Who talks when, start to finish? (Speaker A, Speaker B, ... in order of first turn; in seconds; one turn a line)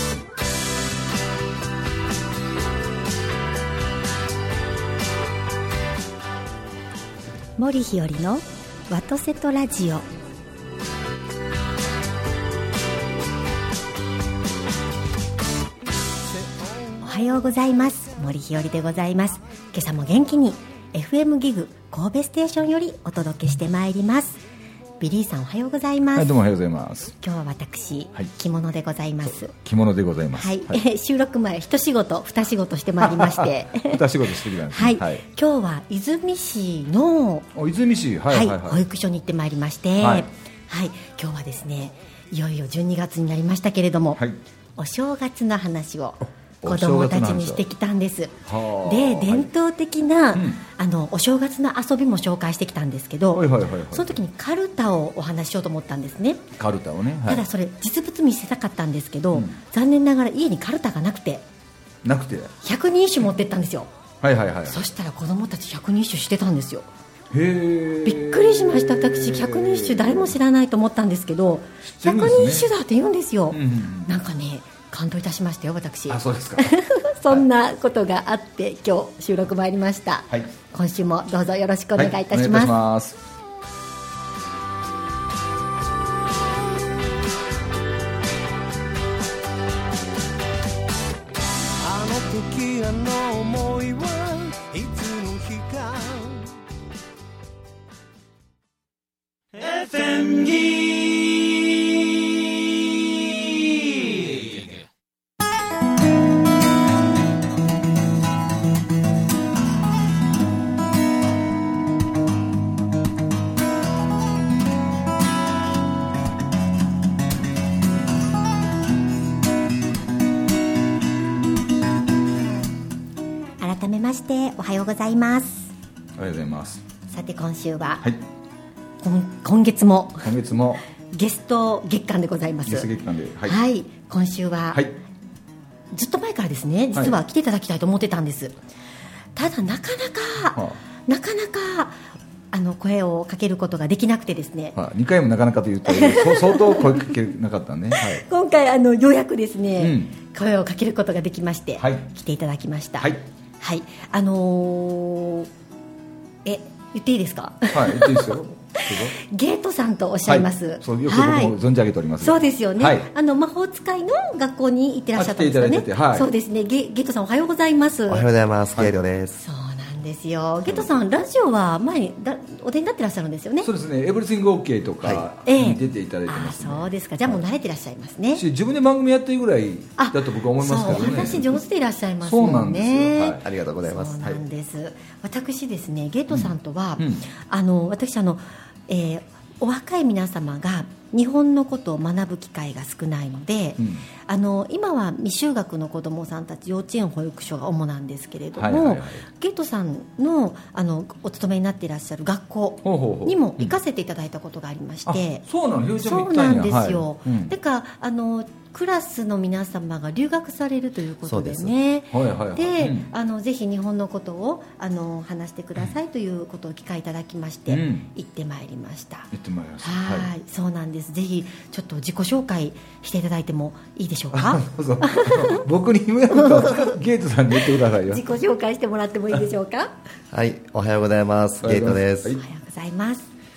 Speaker A: 7.6-10.1
Speaker B: 16.3-17.0
Speaker A: 17.0-24.4
Speaker A: 25.0-26.4
Speaker C: 26.1-27.1
Speaker A: 27.2-29.5
Speaker C: 29.2-30.8
Speaker A: 30.3-34.0
Speaker C: 33.0-35.2
Speaker A: 34.7-37.5
Speaker C: 37.5-38.8
Speaker A: 38.3-44.2
Speaker C: 40.0-40.3
Speaker A: 44.8-56.5
Speaker C: 46.6-47.6
Speaker C: 48.5-49.5
Speaker C: 50.3-50.6
Speaker C: 53.3-54.2
Speaker C: 56.6-57.4
Speaker A: 57.2-61.4
Speaker C: 62.0-62.5
Speaker A: 62.6-63.9
Speaker C: 64.2-64.8
Speaker A: 64.7-66.9
Speaker C: 67.3-70.3
Speaker A: 68.0-82.7
Speaker C: 71.8-72.7
Speaker C: 73.5-74.1
Speaker C: 76.1-76.7
Speaker C: 82.0-83.2
Speaker B: 91.8-96.6
Speaker B: 99.5-101.7
Speaker B: 103.4-104.7
Speaker A: 123.6-125.7
Speaker C: 126.2-126.8
Speaker A: 127.1-128.0
Speaker A: 129.0-130.3
Speaker C: 130.2-130.8
Speaker A: 131.1-132.9
Speaker C: 132.7-133.6
Speaker A: 133.4-134.8
Speaker A: 135.9-138.5
Speaker A: 139.3-144.8
Speaker C: 144.8-148.2
Speaker A: 145.8-147.2
Speaker A: 147.9-155.5
Speaker C: 149.8-150.1
Speaker C: 151.8-152.1
Speaker A: 156.4-161.5
Speaker C: 157.7-159.2
Speaker C: 160.2-163.1
Speaker A: 162.2-168.2
Speaker C: 165.2-166.3
Speaker D: 168.1-169.4
Speaker A: 169.4-173.7
Speaker C: 170.7-170.9
Speaker C: 173.6-177.4
Speaker A: 175.4-178.4
Speaker C: 178.3-181.6
Speaker A: 180.0-205.4
Speaker C: 182.2-183.4
Speaker D: 183.4-184.2
Speaker C: 186.3-187.2
Speaker C: 193.8-194.1
Speaker C: 198.6-199.2
Speaker C: 202.8-203.8
Speaker C: 205.1-207.5
Speaker A: 206.0-219.3
Speaker D: 211.2-211.8
Speaker C: 212.1-213.1
Speaker C: 217.7-218.1
Speaker C: 219.3-220.3
Speaker A: 219.8-225.6
Speaker C: 224.3-228.3
Speaker A: 226.3-227.0
Speaker A: 227.5-229.9
Speaker D: 230.3-232.4
Speaker C: 231.6-232.4
Speaker A: 232.4-233.3